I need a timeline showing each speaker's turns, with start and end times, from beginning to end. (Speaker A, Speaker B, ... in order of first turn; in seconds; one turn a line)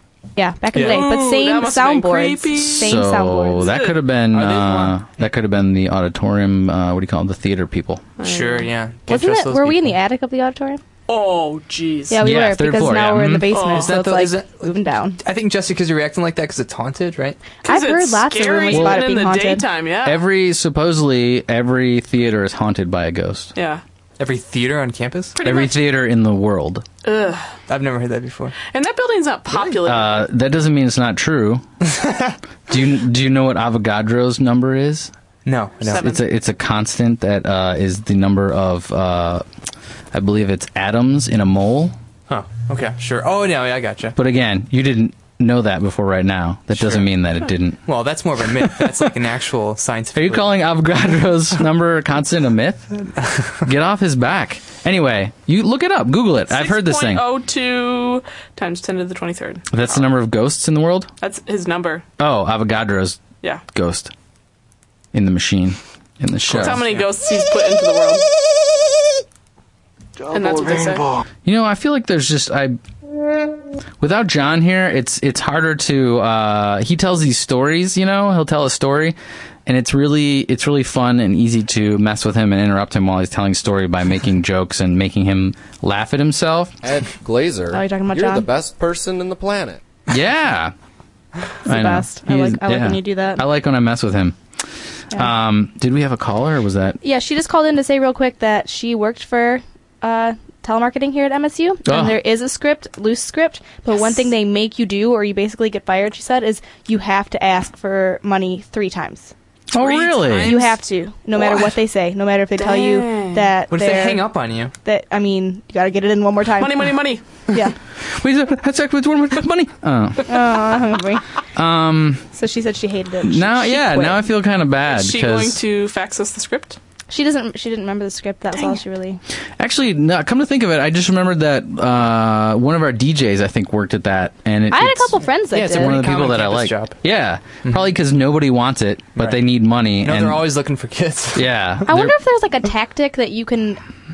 Speaker A: 0.4-3.7
Speaker B: 0.7-1.1
Speaker C: 0.8-3.0
Speaker D: 2.6-8.1
Speaker C: 3.6-4.0
Speaker B: 4.3-5.0
Speaker C: 8.2-8.7
Speaker B: 8.2-9.9
Speaker A: 9.1-10.8
Speaker C: 11.1-12.2
Speaker A: 12.1-15.2
Speaker D: 12.2-13.5
Speaker C: 13.5-13.9
Speaker B: 13.6-17.4
Speaker A: 17.6-19.7
Speaker C: 17.6-20.2
Speaker D: 18.7-19.1
Speaker D: 20.0-23.5
Speaker C: 23.6-23.8
Speaker B: 24.2-25.4
Speaker C: 25.4-25.8
Speaker D: 25.4-26.9
Speaker C: 27.0-27.5
Speaker B: 27.7-28.6
Speaker C: 28.7-30.3
Speaker D: 29.8-31.6
Speaker B: 31.9-32.4
Speaker D: 32.7-35.1
Speaker B: 35.5-36.0
Speaker C: 35.9-36.2
Speaker D: 35.9-39.5
Speaker D: 40.1-42.0
Speaker B: 42.3-44.2
Speaker D: 44.2-47.9
Speaker B: 46.8-47.1
Speaker B: 47.9-50.5
Speaker D: 48.5-49.1
Speaker D: 50.1-52.9
Speaker B: 53.2-53.5
Speaker D: 53.6-57.2
Speaker C: 56.5-60.0
Speaker D: 59.7-61.1
Speaker C: 61.2-62.0
Speaker D: 62.2-63.2
Speaker D: 63.7-64.1
Speaker D: 65.1-66.8
Speaker B: 66.5-67.0
Speaker C: 66.5-68.2
Speaker C: 70.3-71.1
Speaker D: 71.5-72.8
Speaker D: 74.0-86.8
Speaker E: 86.8-89.8
Speaker A: 87.7-88.5
Speaker D: 90.1-90.7
Speaker A: 91.7-93.4
Speaker D: 91.7-94.4
Speaker D: 95.1-97.0
Speaker A: 97.0-109.3
Speaker D: 101.9-102.2
Speaker D: 109.7-110.6
Speaker C: 109.8-110.6
Speaker B: 110.1-110.6
Speaker A: 110.4-116.9
Speaker C: 112.6-113.5
Speaker B: 113.7-114.7
Speaker C: 116.6-117.2
Speaker A: 117.5-117.8
Speaker D: 118.1-120.6
Speaker A: 120.3-121.2
Speaker D: 121.5-122.3
Speaker A: 122.3-124.2
Speaker D: 123.2-125.6
Speaker C: 124.9-126.8
Speaker A: 127.1-129.2
Speaker D: 129.6-140.6
Speaker A: 134.7-136.1
Speaker B: 135.5-137.0
Speaker B: 140.0-141.8
Speaker D: 141.3-142.2
Speaker A: 141.9-143.8